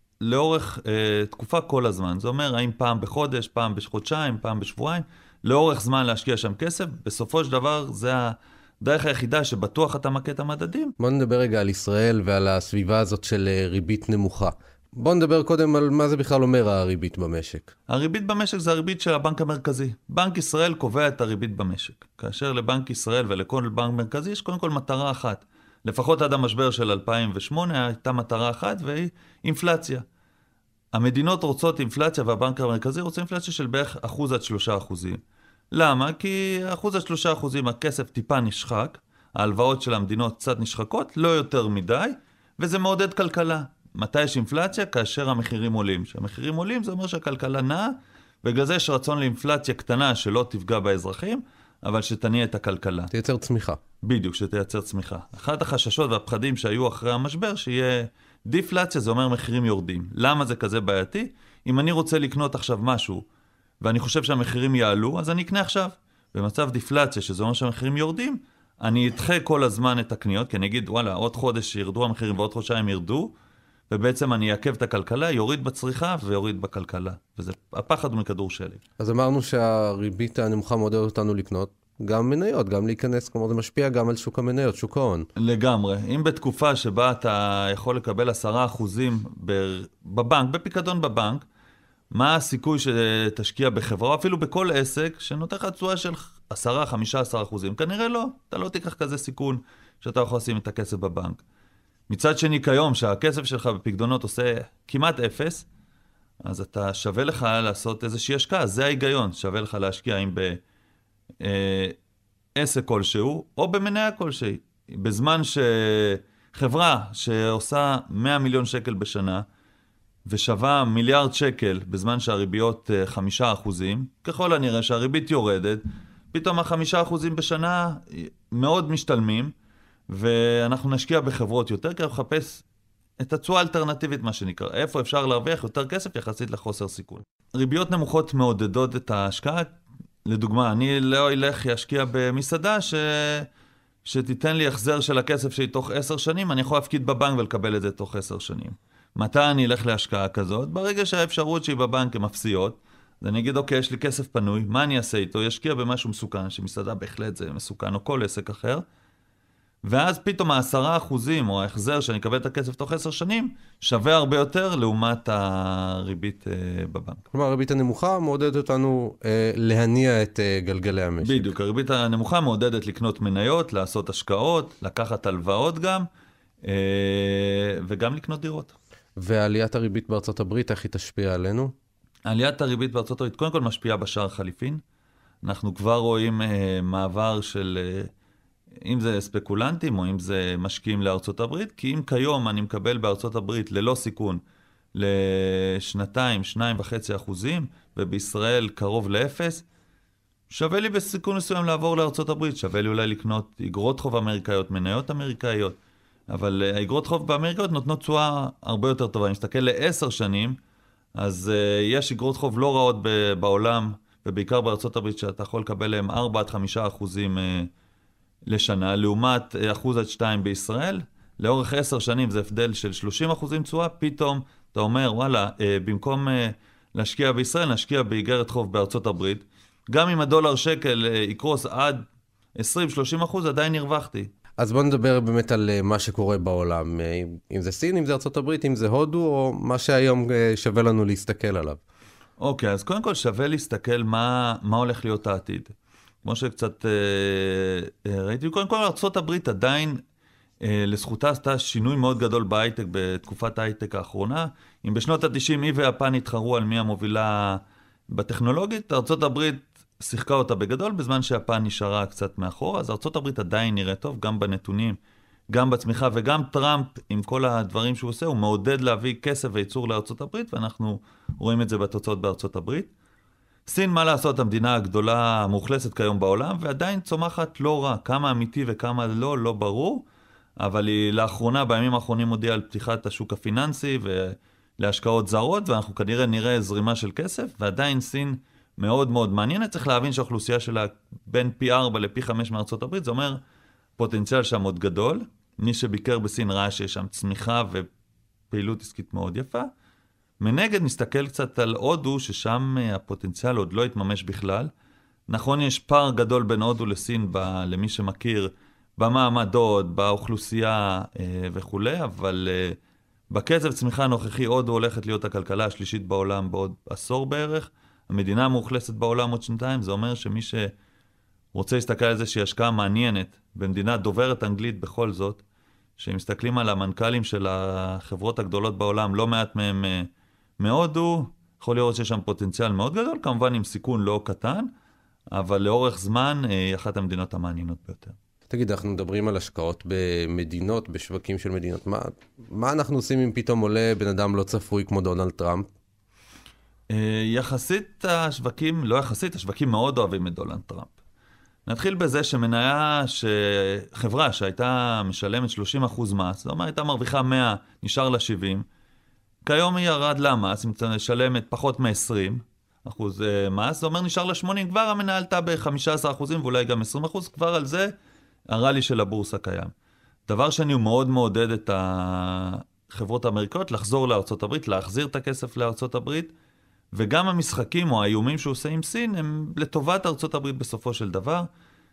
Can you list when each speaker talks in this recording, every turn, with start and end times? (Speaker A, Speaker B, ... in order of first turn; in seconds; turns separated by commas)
Speaker A: 0.2-10.9, Speaker B: 11.0-17.7, Speaker A: 17.9-30.0, Speaker A: 30.9-35.2, Speaker A: 35.7-53.1, Speaker B: 53.1-53.8, Speaker A: 54.0-63.2, Speaker A: 63.8-73.3, Speaker A: 73.9-78.8, Speaker B: 79.0-85.3, Speaker A: 85.3-91.4, Speaker A: 92.1-101.4, Speaker A: 102.1-105.7, Speaker A: 106.4-110.6, Speaker A: 111.4-112.0, Speaker A: 112.5-119.4, Speaker A: 120.3-129.5, Speaker A: 130.1-132.6, Speaker A: 133.2-139.7, Speaker A: 140.2-143.5, Speaker A: 144.0-158.8, Speaker A: 159.8-167.2, Speaker B: 167.3-171.5, Speaker A: 171.2-176.1, Speaker A: 176.6-178.7, Speaker B: 179.2-181.7, Speaker A: 182.2-184.8, Speaker A: 185.4-188.1, Speaker A: 188.8-194.4, Speaker A: 194.9-199.6, Speaker A: 200.5-205.8, Speaker A: 206.3-210.6, Speaker A: 211.2-217.7, Speaker A: 218.5-232.0, Speaker A: 232.6-234.3, Speaker B: 234.6-241.8, Speaker A: 242.4-250.0, Speaker A: 250.6-265.0, Speaker A: 265.5-272.9, Speaker A: 273.6-280.0, Speaker A: 280.6-293.4, Speaker A: 294.0-297.9, Speaker A: 298.5-299.7, Speaker A: 300.4-304.7, Speaker A: 305.3-312.8, Speaker A: 313.3-320.7, Speaker A: 321.5-325.4, Speaker A: 326.0-334.7, Speaker A: 335.3-338.1, Speaker B: 338.5-345.7, Speaker A: 346.9-350.9, Speaker A: 351.6-358.6, Speaker A: 359.4-367.9, Speaker A: 368.5-369.7, Speaker A: 370.3-376.3, Speaker A: 376.9-381.5